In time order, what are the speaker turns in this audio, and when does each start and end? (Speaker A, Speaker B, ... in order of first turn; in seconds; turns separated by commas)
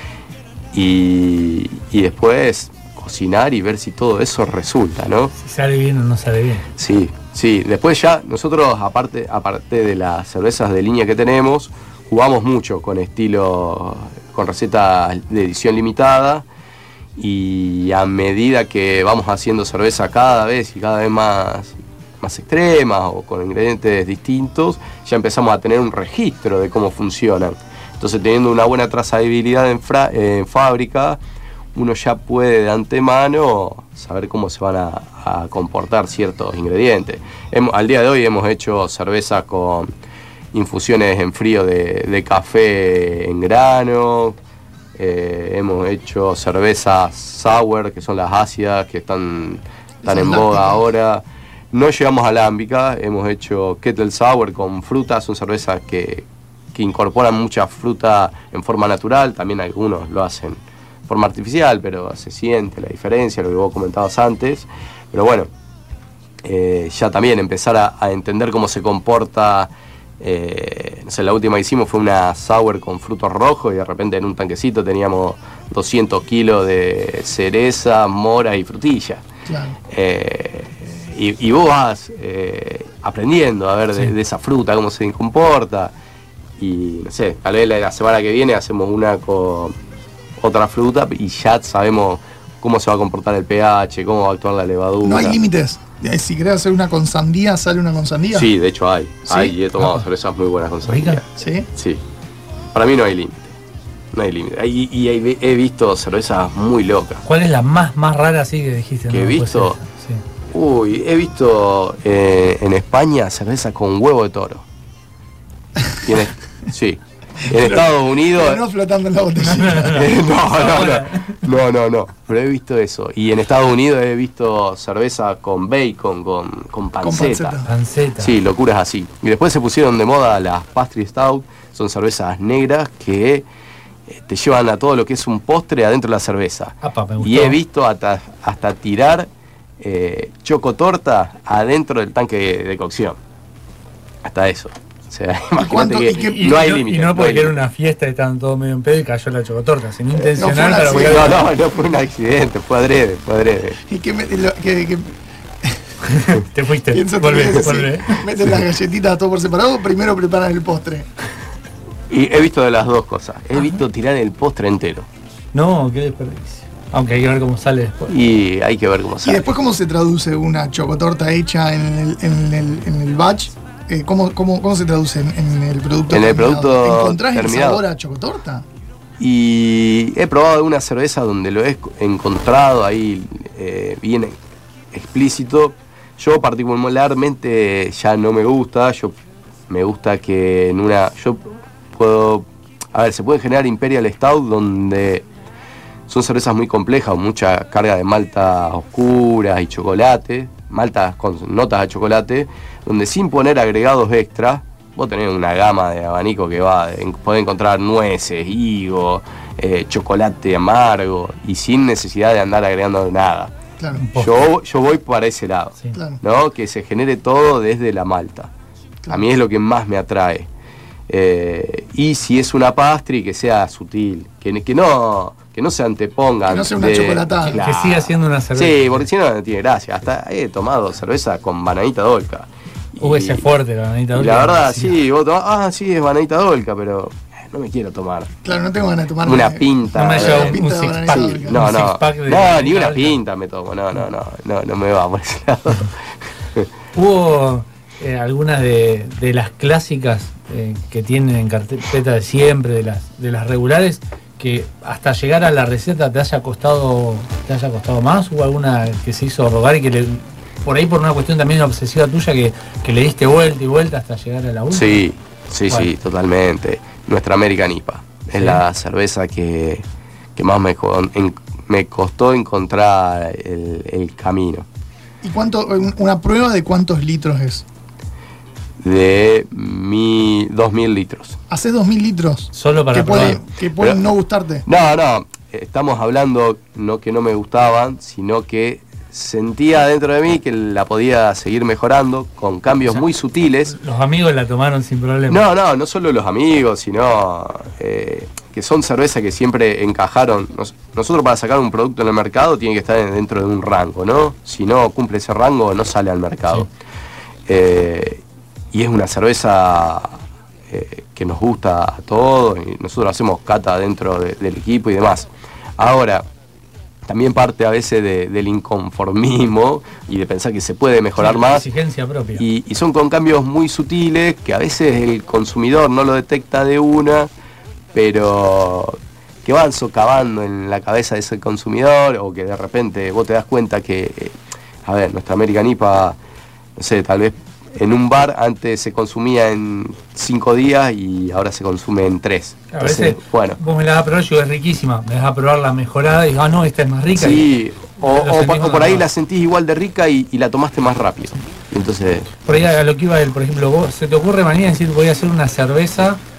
Speaker A: 0.7-5.3, Speaker B: 5.4-6.7, Speaker A: 6.8-16.4, Speaker A: 17.2-31.2, Speaker A: 31.8-39.9, Speaker A: 40.5-44.4, Speaker A: 45.0-65.5, Speaker C: 50.0-50.8, Speaker A: 66.5-79.2, Speaker C: 79.5-79.8, Speaker A: 79.9-85.9, Speaker A: 86.6-89.8, Speaker A: 90.4-95.4, Speaker C: 95.0-98.5, Speaker A: 98.3-102.0, Speaker C: 99.3-99.5, Speaker B: 99.8-100.0, Speaker B: 100.9-101.2, Speaker C: 101.4-101.7, Speaker A: 102.7-103.5, Speaker A: 104.1-107.2, Speaker B: 107.2-110.2, Speaker A: 109.1-109.8, Speaker A: 110.5-114.6, Speaker A: 116.0-118.6, Speaker C: 117.5-120.1, Speaker B: 119.4-121.4, Speaker A: 119.8-127.6, Speaker C: 127.0-127.7, Speaker B: 127.6-128.4, Speaker A: 128.2-133.4, Speaker A: 134.1-139.3, Speaker B: 136.8-137.6, Speaker A: 139.8-143.2, Speaker A: 144.2-147.6, Speaker C: 145.6-146.6, Speaker B: 146.2-151.4, Speaker C: 150.3-151.4, Speaker A: 150.9-153.8, Speaker C: 153.9-155.8, Speaker B: 156.0-158.2, Speaker C: 156.9-161.1, Speaker A: 162.1-165.1, Speaker B: 165.5-168.2, Speaker A: 168.1-169.5, Speaker C: 169.2-178.7, Speaker A: 176.1-177.8, Speaker A: 179.2-184.3, Speaker A: 184.9-189.1, Speaker A: 189.7-191.4, Speaker A: 191.9-195.2, Speaker A: 196.1-213.5, Speaker C: 213.8-214.0, Speaker B: 214.0-214.3, Speaker A: 214.2-218.5, Speaker A: 219.1-220.5, Speaker A: 221.1-233.5, Speaker C: 226.5-227.6, Speaker B: 227.6-229.1, Speaker B: 233.0-235.0, Speaker A: 234.2-238.3, Speaker C: 238.4-241.6, Speaker A: 239.2-246.7, Speaker B: 240.0-243.2, Speaker B: 246.9-265.0, Speaker A: 264.7-269.8, Speaker A: 270.4-274.6, Speaker C: 275.2-277.6, Speaker A: 278.8-281.4, Speaker C: 281.5-284.7, Speaker B: 282.5-283.4, Speaker A: 283.1-284.0, Speaker A: 284.7-293.7, Speaker B: 293.7-295.4, Speaker A: 295.3-306.7, Speaker A: 307.5-308.2, Speaker A: 308.7-310.2, Speaker A: 310.7-316.2, Speaker A: 317.1-321.6, Speaker B: 321.2-322.5, Speaker A: 322.4-327.3, Speaker A: 327.9-334.3, Speaker A: 334.9-336.2, Speaker A: 336.8-343.6, Speaker B: 342.7-347.5, Speaker A: 347.2-352.5, Speaker B: 348.0-349.1, Speaker B: 352.5-356.2